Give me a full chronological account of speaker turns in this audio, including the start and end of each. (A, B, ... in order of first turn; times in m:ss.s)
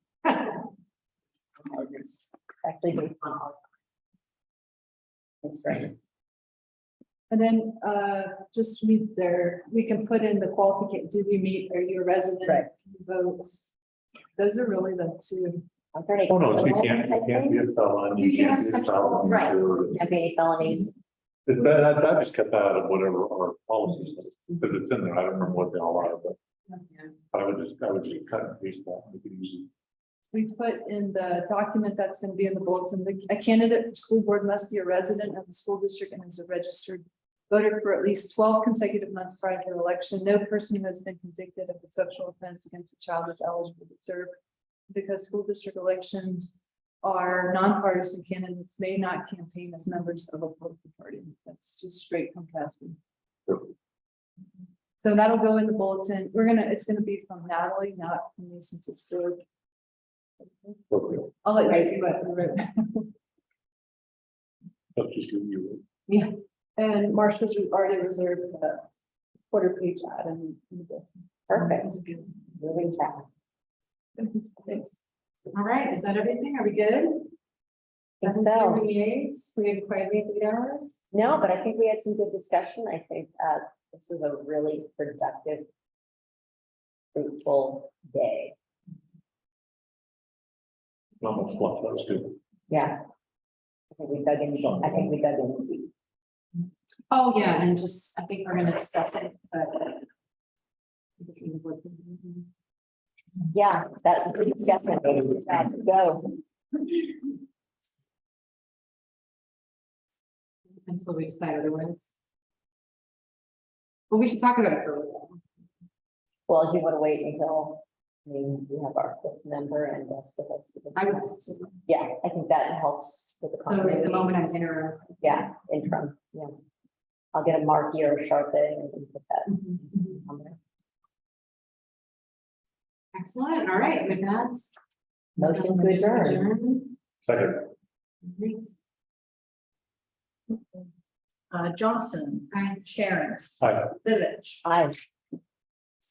0:02.6-0:03.6 A
0:05.4-0:06.0 A
0:07.3-0:13.6 B
0:14.4-0:15.6 B
0:15.9-0:17.7 A
0:16.3-0:20.0 C
0:18.1-0:19.6 B
0:19.3-0:20.9 A
0:21.4-0:26.4 C
0:27.3-0:29.7 C
0:30.3-0:44.3 B
0:44.9-0:46.5 B
0:47.0-0:53.0 B
0:55.0-0:59.4 B
1:00.9-1:01.3 C
1:01.4-1:03.1 B
1:05.0-1:05.8 C
1:06.1-1:08.9 B
1:09.5-1:12.2 B
1:11.5-1:11.9 A
1:12.6-1:13.3 A
1:14.2-1:15.0 B
1:15.5-1:17.3 D
1:18.2-1:18.8 A
1:18.2-1:20.9 D
1:21.1-1:25.7 A
1:27.1-1:28.5 A
1:31.2-1:32.4 C
1:32.7-1:33.0 A
1:33.9-1:35.9 A
1:37.1-1:40.0 D
1:41.2-1:42.5 D
1:43.5-1:46.3 A
1:50.8-1:52.1 D
1:54.1-1:55.4 D
1:56.5-2:04.3 A
2:00.9-2:01.7 D
2:03.7-2:05.3 D
2:05.2-2:06.5 A
2:07.3-2:10.6 A
2:13.1-2:14.7 D
2:15.4-2:17.0 D
2:15.4-2:16.5 A
2:17.2-2:17.7 C
2:18.2-2:18.7 D
2:21.5-2:23.5 B
2:22.5-2:22.8 D
2:23.6-2:24.0 C
2:24.0-2:24.6 B
2:24.6-2:25.0 A